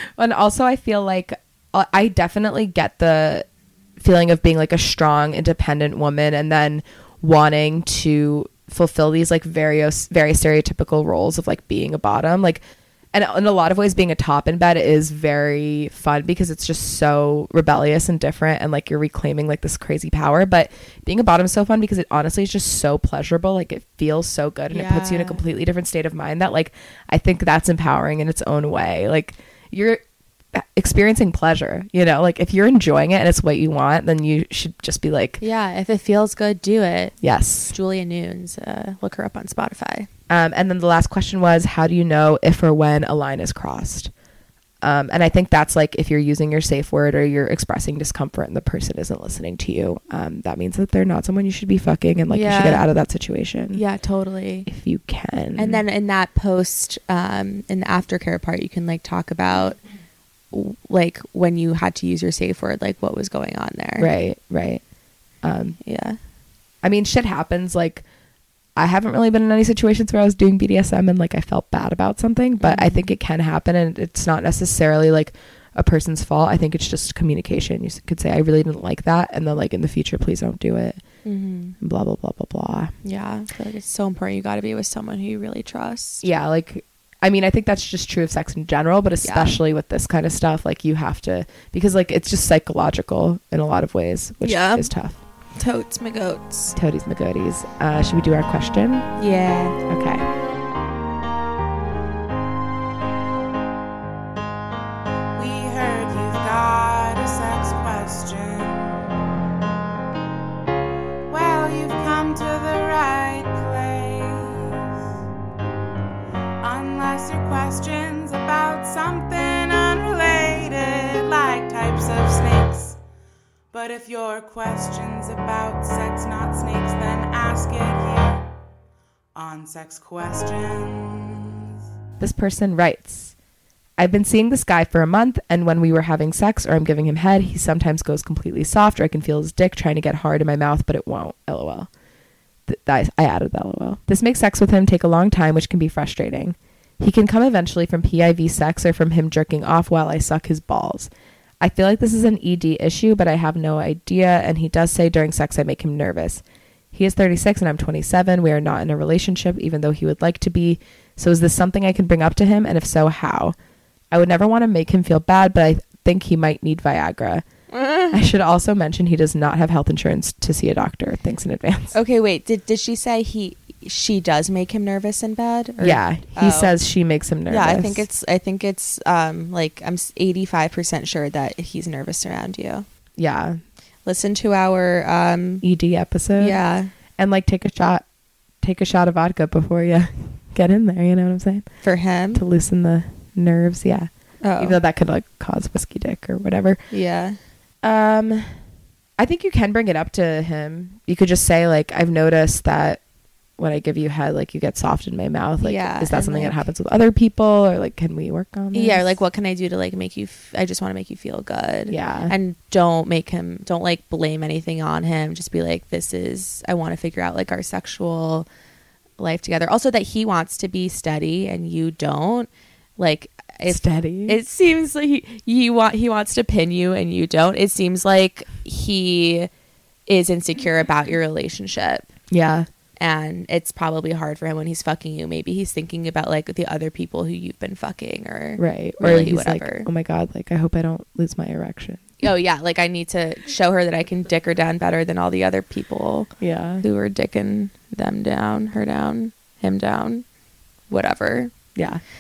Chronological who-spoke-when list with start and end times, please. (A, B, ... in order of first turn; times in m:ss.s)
0:00.2-0:03.4 A
0:04.0-0:12.6 A
0:13.1-0:30.0 A
0:24.7-0:25.4 B
0:30.5-0:35.4 A
0:35.4-0:37.1 B
0:37.2-0:37.7 A
0:37.7-0:40.1 B
0:40.3-0:44.1 A
0:44.8-0:53.8 A
0:52.3-0:52.8 B
0:53.7-0:54.7 B
0:54.7-0:55.8 A
0:55.6-0:59.8 B
1:00.5-1:04.1 B
1:04.0-1:04.8 A
1:05.4-1:05.8 A
1:05.8-1:06.2 B
1:06.8-1:08.0 A
1:08.8-1:21.0 A
1:12.6-1:13.1 B
1:21.2-1:21.7 B
1:21.8-1:22.9 A
1:23.0-1:26.2 B
1:26.2-1:35.2 A
1:29.2-1:29.6 B
1:34.4-1:34.9 B
1:35.6-1:36.7 B
1:36.8-1:39.1 A
1:39.2-1:39.8 B
1:39.9-1:40.2 A
1:45.4-1:49.0 C
1:51.3-1:54.8 C
1:56.6-2:03.0 C
2:03.7-2:08.5 C
2:09.3-2:11.6 C
2:12.2-2:13.3 A
2:14.0-2:21.9 A
2:22.7-2:43.6 A
2:44.1-2:47.4 A
2:47.7-2:48.2 B
2:48.1-2:52.0 A
2:51.9-2:56.7 B
2:55.8-2:58.0 A
2:57.5-3:02.8 B
3:03.2-3:03.6 A
3:04.0-3:05.6 B
3:05.6-3:06.6 A
3:06.4-3:06.9 B
3:07.2-3:08.0 A
3:08.6-3:11.6 A
3:11.8-3:12.4 B
3:12.3-3:16.8 A
3:14.4-3:14.8 B
3:16.9-3:17.4 B
3:17.8-3:18.5 A
3:19.2-3:23.0 A
3:23.6-3:29.1 A
3:25.6-3:26.6 B
3:28.7-3:38.5 B
3:31.9-3:32.3 A
3:39.2-3:49.5 B
3:43.7-3:44.4 A
3:50.1-3:52.1 B
3:52.3-3:52.7 A
3:53.0-3:59.9 B
3:58.6-4:02.1 A
4:02.2-4:10.2 B
4:06.4-4:06.8 A
4:10.9-4:11.5 B
4:11.7-4:12.0 A